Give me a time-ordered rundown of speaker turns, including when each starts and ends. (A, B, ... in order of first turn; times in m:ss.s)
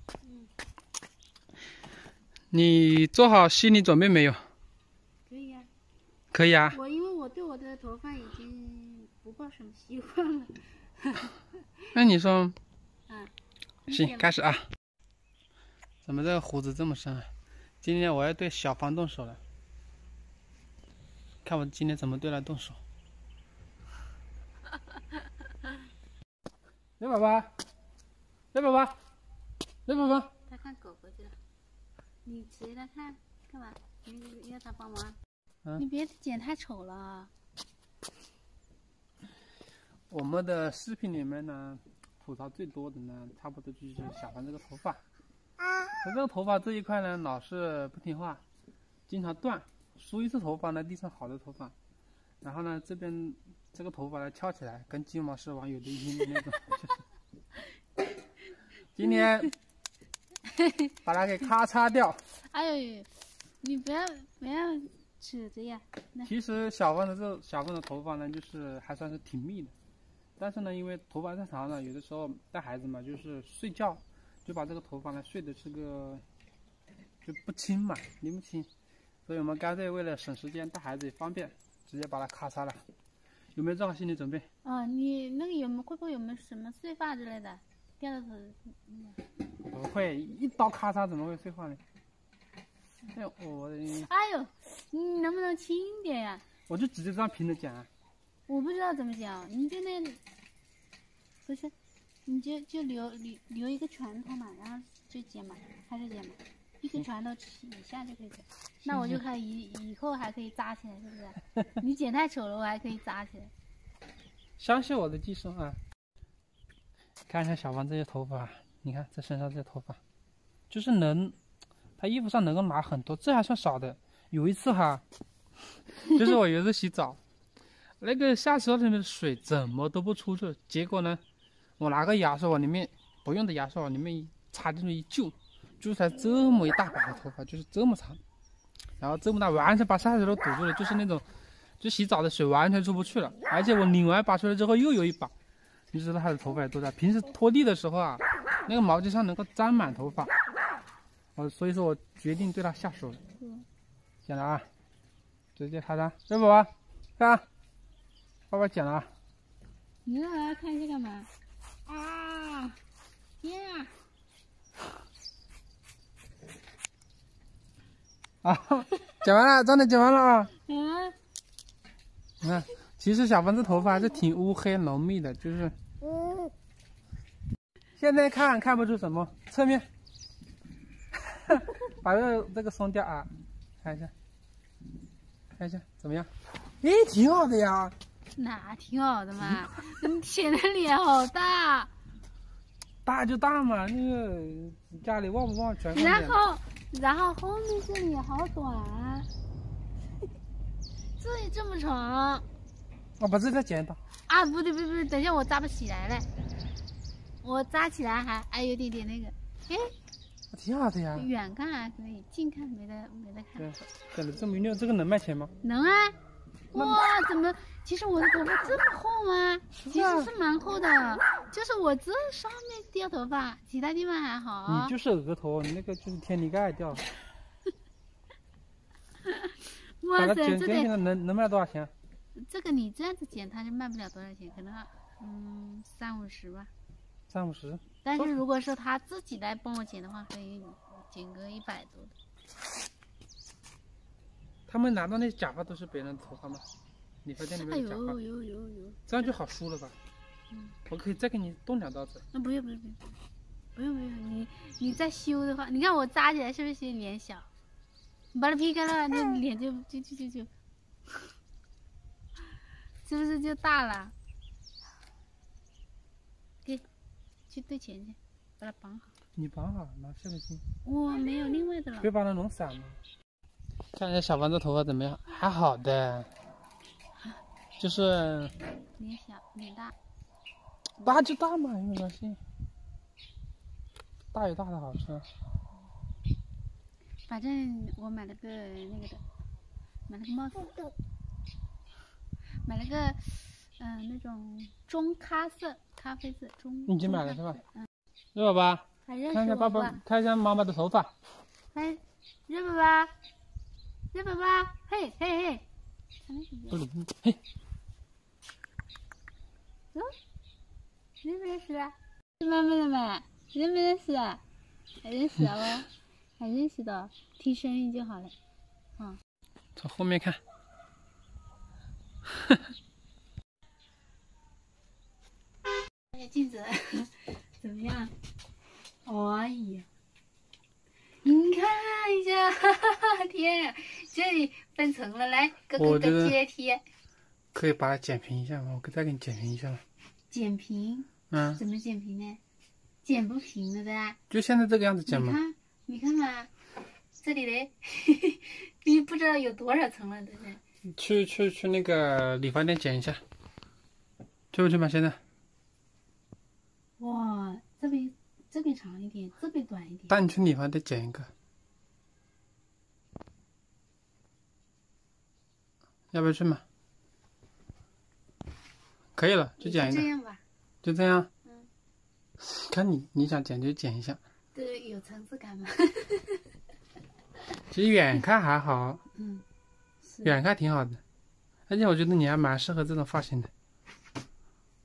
0:02.5-0:04.4 A
0:05.2-0:05.7 B
0:06.3-0:06.8 A
0:06.7-0:11.4 B
0:11.9-0:12.6 A
0:13.9-0:14.3 B
0:13.9-0:14.6 A
0:16.0-0:17.3 A
0:17.8-0:19.4 A
0:21.4-0:22.8 A
0:27.0-0:27.5 A
0:28.5-0:29.0 A
0:29.8-0:30.3 A
0:30.5-0:31.4 B
0:32.2-0:35.2 B
0:35.8-0:37.3 B
0:40.1-0:45.0 A
0:46.0-0:48.4 A
0:49.1-0:51.7 A
0:52.4-0:57.0 A
0:58.9-0:59.5 A
1:00.5-1:00.9 B
1:01.0-1:02.2 A
1:02.4-1:03.1 B
1:03.6-1:06.3 B
1:06.2-1:09.7 A
1:10.4-1:16.2 A
1:17.2-1:18.7 A
1:19.2-1:22.8 A
1:23.5-1:24.5 A
1:24.6-1:29.2 B
1:29.6-1:31.8 A
1:33.1-1:34.1 A
1:34.1-1:36.4 B
1:36.7-1:37.9 A
1:38.5-1:40.2 B
1:41.4-1:41.7 B
1:42.2-1:53.5 B
1:48.9-1:49.2 A
1:54.6-1:55.8 A
1:57.3-2:00.0 A
2:00.7-2:01.4 A
2:02.0-2:05.0 A
2:06.0-2:07.2 A
2:08.0-2:11.2 A
2:11.8-2:18.2 A
2:19.0-2:21.2 A
2:21.8-2:25.3 A
2:25.9-2:30.3 A
2:31.4-2:33.2 A
2:33.4-2:33.6 B
2:34.3-2:34.6 A
2:35.6-2:37.4 A
2:38.5-2:39.1 A
2:40.0-2:41.3 B
2:41.8-2:42.8 B
2:43.4-2:43.9 B
2:48.4-2:50.5 A
2:50.6-2:51.2 B
2:52.4-2:55.8 A
2:58.0-2:59.9 A
3:01.3-3:03.3 A
3:03.8-3:04.1 A
3:05.5-3:07.9 A
3:08.3-3:11.9 B
3:09.4-3:09.9 A
3:13.0-3:16.4 A
3:15.9-3:19.3 B
3:21.2-3:22.4 B
3:23.2-3:24.0 A
3:24.3-3:26.3 B
3:27.4-3:29.9 B
3:30.5-3:31.3 A
3:31.1-3:33.7 B
3:33.6-3:35.5 A
3:35.6-3:36.2 B
3:36.7-3:44.9 B
3:36.7-3:37.0 A
3:39.7-3:40.3 A
3:44.6-3:47.0 A
3:49.2-3:50.9 B
3:50.2-3:51.9 A
3:52.3-3:56.7 B
3:57.3-3:58.4 A
3:58.0-4:02.1 B
4:04.7-4:06.6 A
4:07.2-4:08.2 A
4:07.4-4:09.1 B
4:09.1-4:10.0 A
4:10.8-4:12.2 A
4:12.3-4:13.2 B
4:13.7-4:17.5 B
4:18.3-4:20.5 B
4:23.0-4:24.1 B
4:27.5-4:29.1 B
4:29.4-4:30.6 A
4:30.8-4:32.1 B
4:32.0-4:33.0 A
4:33.9-4:36.3 A
4:37.8-4:38.5 A
4:39.0-4:39.9 B
4:41.0-4:42.4 A
4:44.3-4:45.3 A
4:47.3-4:49.2 B
4:50.1-4:50.9 B
4:52.6-4:57.9 B
4:56.9-4:57.6 A
4:58.3-5:01.1 A
4:59.0-5:00.0 B
5:01.7-5:03.1 B
5:04.1-5:05.6 B
5:06.2-5:06.8 B
5:06.7-5:07.4 A
5:11.2-5:14.4 B
5:15.0-5:18.4 B
5:19.8-5:20.4 A
5:26.1-5:28.1 B
5:29.0-5:29.9 B
5:31.2-5:36.8 B
5:35.8-5:36.4 A
5:37.5-5:39.8 A
5:40.3-5:42.4 B
5:41.3-5:41.6 A
5:43.0-5:44.2 B
5:44.3-5:45.4 A
5:45.1-5:46.5 B
5:47.1-5:50.6 B
5:50.9-5:53.2 A
5:54.5-5:55.2 A
5:57.0-6:00.2 B
6:00.1-6:01.3 A
6:06.1-6:06.6 A
6:09.2-6:10.1 A
6:09.6-6:10.4 B
6:10.8-6:11.3 A
6:12.4-6:14.2 A
6:14.5-6:16.5 B
6:17.7-6:19.0 A
6:19.1-6:19.4 B
6:20.0-6:20.4 B
6:20.2-6:21.0 A
6:21.7-6:23.5 A